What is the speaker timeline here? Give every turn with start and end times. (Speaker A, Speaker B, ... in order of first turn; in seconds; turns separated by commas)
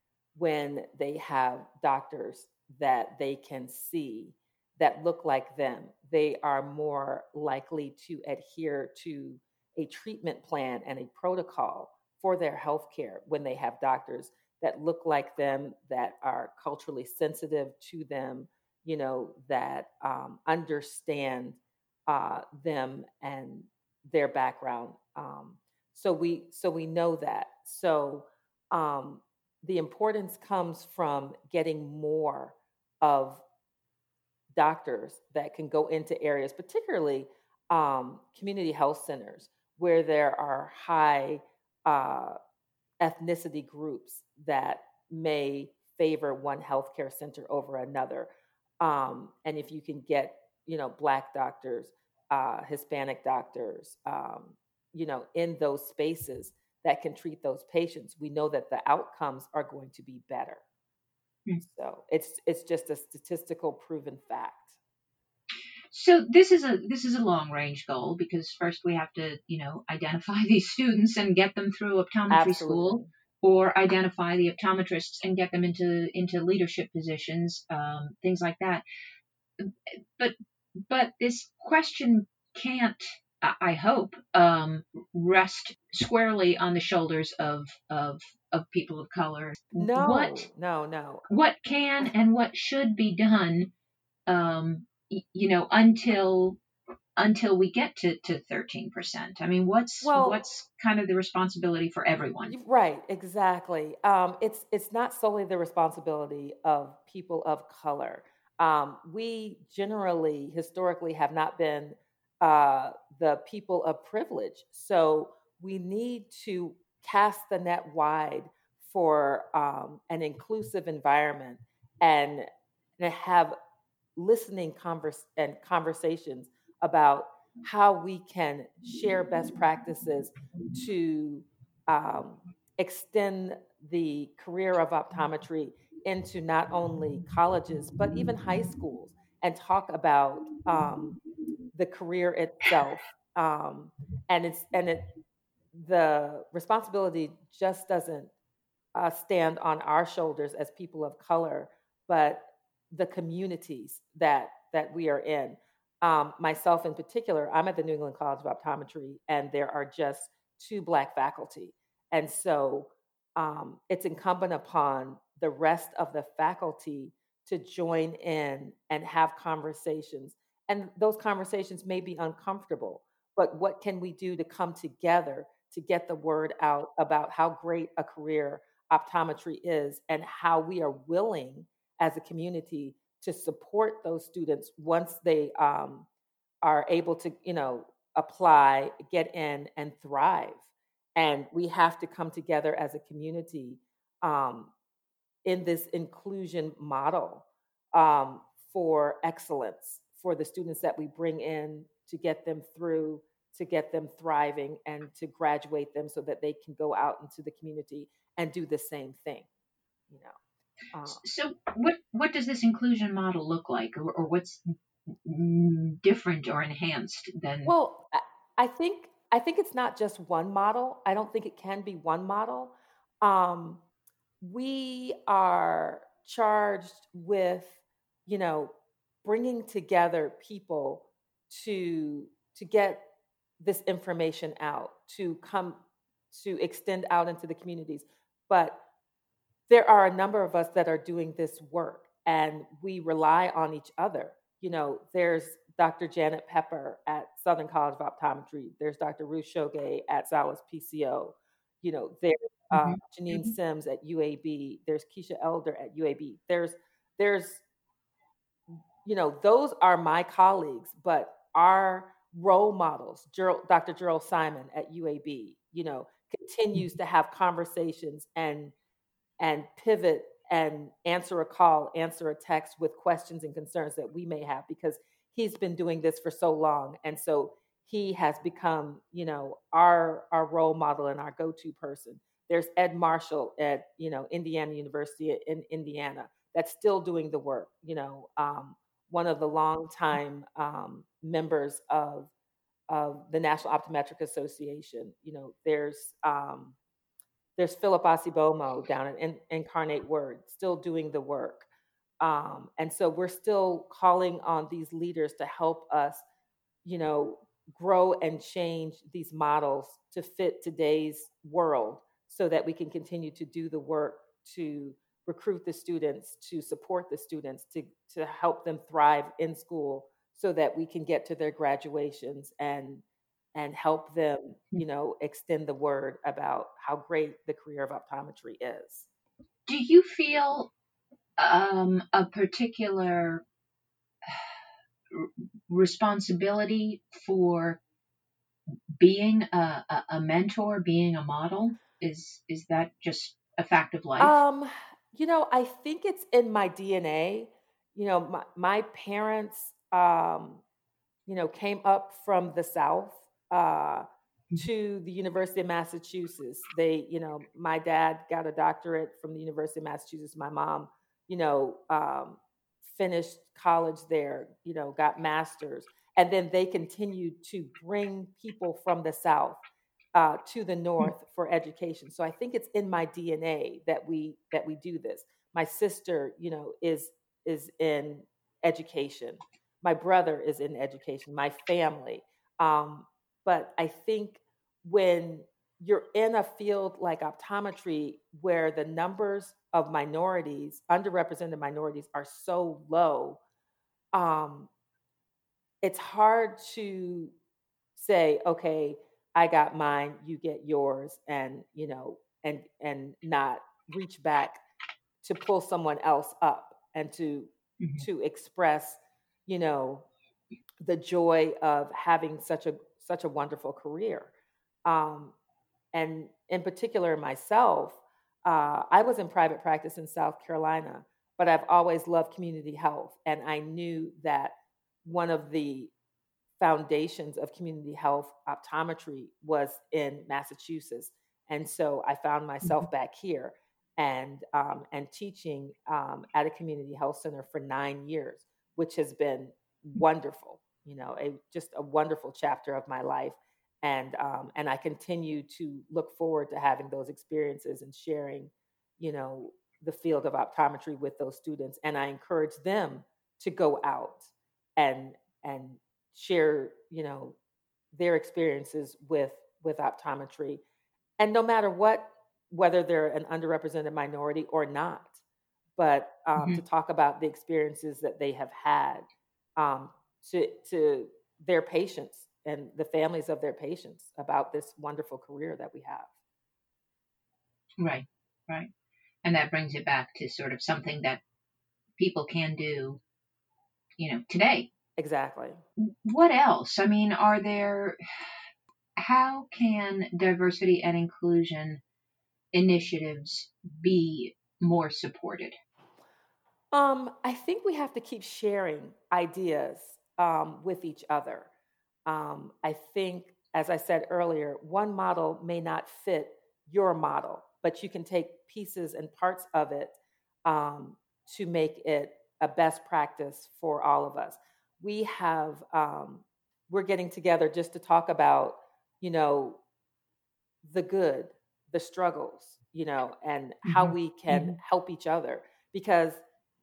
Speaker A: 0.4-33.4, Speaker A: 34.5-42.4, Speaker A: 43.0-48.3, Speaker A: 48.8-60.6, Speaker A: 61.6-64.8, Speaker B: 65.9-78.8, Speaker A: 72.3-73.1, Speaker B: 79.6-80.3, Speaker B: 80.9-90.5, Speaker A: 89.8-91.2, Speaker B: 91.3-93.7, Speaker B: 94.3-96.6, Speaker B: 97.2-102.5, Speaker A: 100.0-100.4, Speaker A: 102.5-122.5, Speaker A: 123.0-123.5, Speaker A: 124.2-141.2, Speaker A: 141.7-145.1, Speaker A: 145.7-148.3, Speaker A: 148.9-186.1, Speaker A: 186.6-194.7, Speaker A: 195.4-209.5, Speaker A: 210.1-210.4, Speaker A: 210.9-211.2, Speaker B: 211.1-214.7, Speaker B: 215.2-217.7, Speaker A: 217.7-223.8, Speaker A: 224.4-228.7, Speaker A: 229.2-233.1, Speaker A: 233.6-235.8, Speaker A: 236.3-238.8, Speaker A: 239.7-257.6, Speaker B: 252.7-253.5, Speaker A: 259.0-268.7, Speaker A: 269.4-292.3, Speaker A: 292.9-296.8, Speaker A: 297.6-301.7, Speaker A: 302.2-306.2, Speaker A: 306.9-323.0, Speaker A: 323.6-329.1, Speaker B: 329.7-330.7, Speaker B: 331.4-333.4, Speaker B: 335.1-337.8, Speaker B: 339.0-344.4, Speaker A: 344.2-350.6, Speaker A: 351.3-354.1, Speaker A: 354.6-369.6, Speaker A: 370.1-393.4, Speaker A: 394.1-394.7, Speaker A: 395.8-397.3, Speaker A: 398.0-404.6, Speaker A: 405.2-410.1, Speaker B: 407.8-408.1, Speaker A: 410.8-414.3, Speaker A: 414.9-415.3, Speaker A: 415.9-425.9, Speaker A: 426.6-457.4, Speaker A: 457.9-460.6, Speaker A: 461.2-465.2, Speaker A: 465.8-469.1, Speaker A: 469.6-476.1, Speaker B: 477.8-478.7, Speaker B: 479.2-481.2, Speaker B: 482.0-483.0, Speaker B: 484.0-484.7, Speaker A: 485.0-485.6, Speaker B: 485.8-488.0, Speaker B: 489.0-491.8, Speaker B: 492.5-495.6, Speaker A: 496.7-501.5, Speaker A: 502.1-519.6, Speaker A: 520.6-526.2, Speaker B: 523.7-524.6